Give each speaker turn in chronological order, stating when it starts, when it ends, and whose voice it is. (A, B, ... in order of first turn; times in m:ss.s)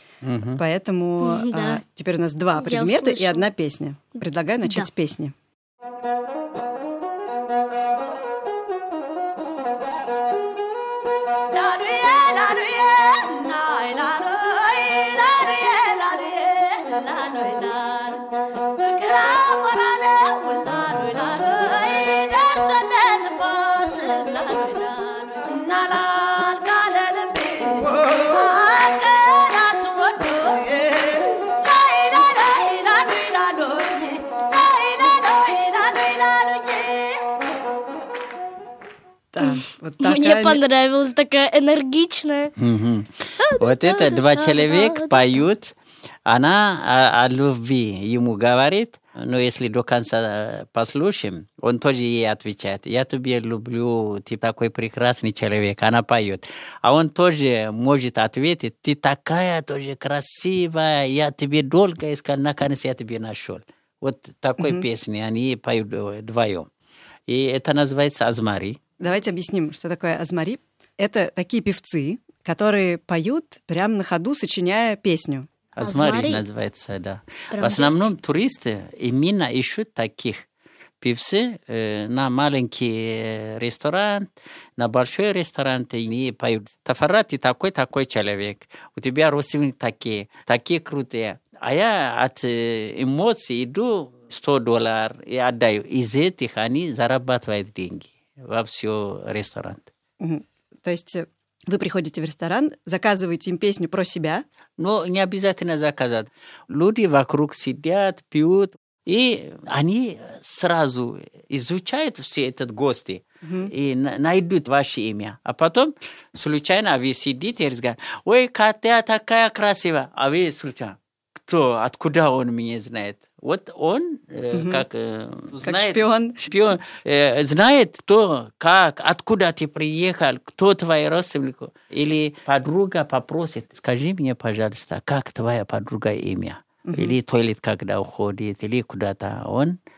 0:00.2-0:00.6 A
0:00.6-0:05.3 B
0:01.2-0:01.8 C
0:02.6-0:03.5 C
0:39.3-0:40.6 B
0:39.4-0:42.5 C
0:42.6-0:45.8 A
0:43.4-0:45.4 C
0:46.3-1:06.7 A
1:04.6-1:04.9 B
1:07.3-1:08.8 A
1:09.0-1:15.5 B
1:15.8-1:20.5 A
1:15.8-1:16.4 C
1:17.5-1:18.1 C
1:21.0-1:39.9 A
1:40.2-1:44.4 B
1:44.8-2:19.8 A
1:53.4-1:53.7 B
2:04.5-2:04.8 B
2:05.6-2:06.4 B
2:16.8-2:17.2 B